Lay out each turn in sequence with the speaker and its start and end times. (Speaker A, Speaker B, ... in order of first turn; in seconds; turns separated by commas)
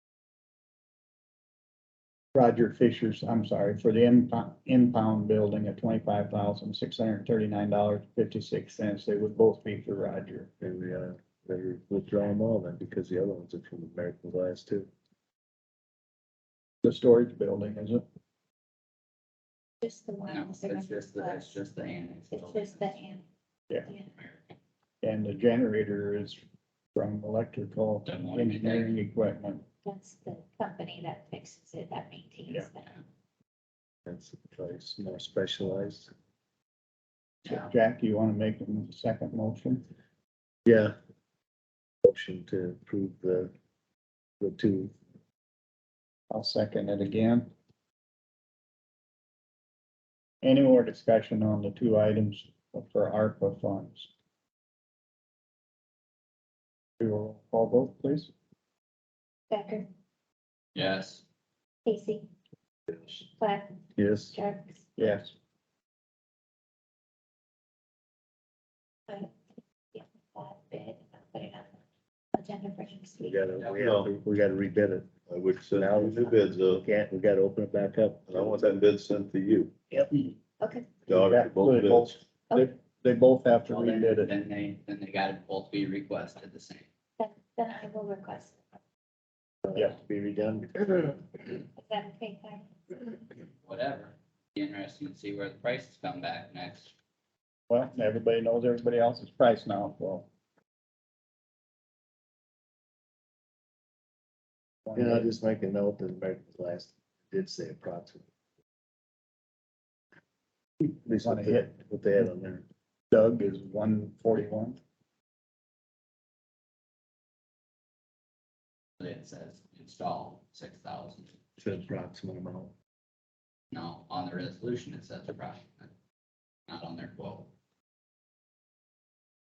Speaker A: 2.4-10.5, Speaker B: 10.6-14.9, Speaker A: 16.8-18.0, Speaker C: 19.8-21.6, Speaker D: 20.3-23.0, Speaker C: 22.3-23.2, Speaker D: 24.1-24.5, Speaker A: 25.0-26.4, Speaker A: 26.9-29.7, Speaker D: 28.1-28.9, Speaker C: 29.9-33.0, Speaker B: 34.1-36.1, Speaker A: 37.5-39.9, Speaker B: 40.7-41.0, Speaker B: 42.0-43.5, Speaker B: 44.4-45.0, Speaker A: 46.3-47.5, Speaker A: 50.4-54.1, Speaker A: 57.0-58.3, Speaker C: 59.5-59.9, Speaker D: 60.8-61.2, Speaker C: 61.9-62.3, Speaker C: 63.2-64.9, Speaker B: 64.0-64.4, Speaker A: 65.0-65.3, Speaker C: 69.1-69.3, Speaker C: 69.9-71.8, Speaker C: 72.3-73.5, Speaker B: 73.2-75.1, Speaker E: 73.7-74.2, Speaker E: 75.3-76.9, Speaker B: 75.7-78.6, Speaker E: 78.3-79.7, Speaker C: 80.6-81.1, Speaker E: 81.1-82.2, Speaker A: 81.1-84.3, Speaker D: 83.7-86.9, Speaker C: 87.2-88.6, Speaker B: 89.6-91.4, Speaker C: 91.8-93.0, Speaker D: 93.6-96.9, Speaker A: 97.7-100.3, Speaker A: 104.9-105.3, Speaker B: 105.0-108.3, Speaker B: 110.8-112.7, Speaker A: 111.2-111.7, Speaker A: 113.1-114.8, Speaker D: 119.0-121.3, Speaker B: 121.6-122.7, Speaker D: 123.7-125.9, Speaker D: 126.7-127.5